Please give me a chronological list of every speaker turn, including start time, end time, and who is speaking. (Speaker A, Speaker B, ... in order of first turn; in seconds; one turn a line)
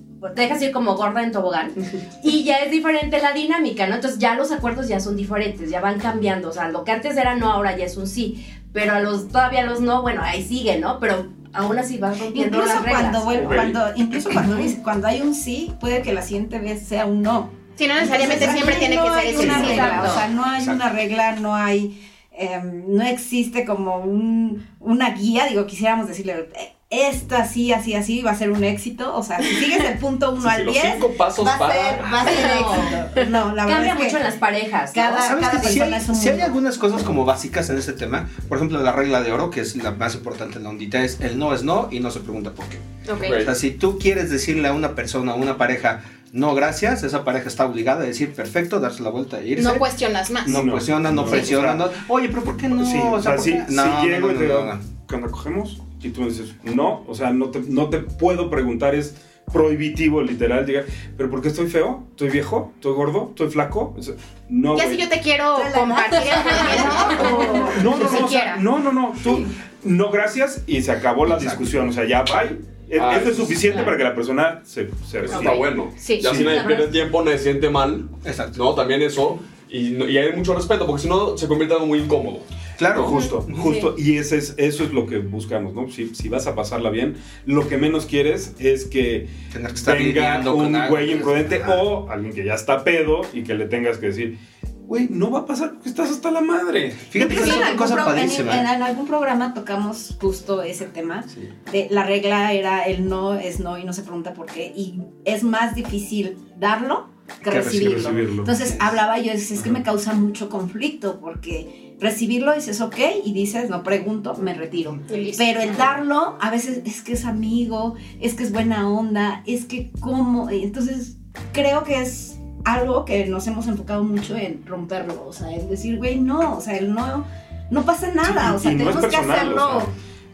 Speaker A: 0.2-13.6
Speaker B: 12.3-34.2
Speaker C: 13.3-13.8
Speaker D: 17.8-20.1
Speaker E: 19.4-19.9
Speaker A: 19.4-20.2
Speaker F: 20.5-20.8
Speaker C: 30.4-32.4
Speaker A: 32.2-32.9
Speaker A: 33.6-35.3
Speaker B: 34.9-36.5
Speaker F: 35.2-49.9
Speaker D: 43.0-43.5
Speaker C: 43.2-43.5
Speaker D: 49.5-51.6
Speaker F: 50.4-54.8
Speaker E: 50.4-51.9
Speaker E: 52.7-65.1
Speaker D: 64.7-68.6
Speaker B: 65.5-68.2
Speaker A: 66.5-66.7
Speaker E: 67.7-76.6
Speaker F: 71.2-71.7
Speaker C: 73.0-73.8
Speaker C: 75.2-83.1
Speaker D: 75.3-76.3
Speaker A: 76.4-76.9
Speaker F: 78.2-78.6
Speaker F: 82.8-83.6
Speaker E: 82.9-94.3
Speaker D: 83.1-83.9
Speaker F: 89.5-91.8
Speaker E: 94.9-97.4
Speaker F: 97.1-98.7
Speaker B: 97.2-129.9
Speaker F: 107.5-108.1
Speaker E: 107.7-108.6
Speaker D: 115.1-115.5
Speaker A: 115.1-115.8
Speaker E: 128.2-129.9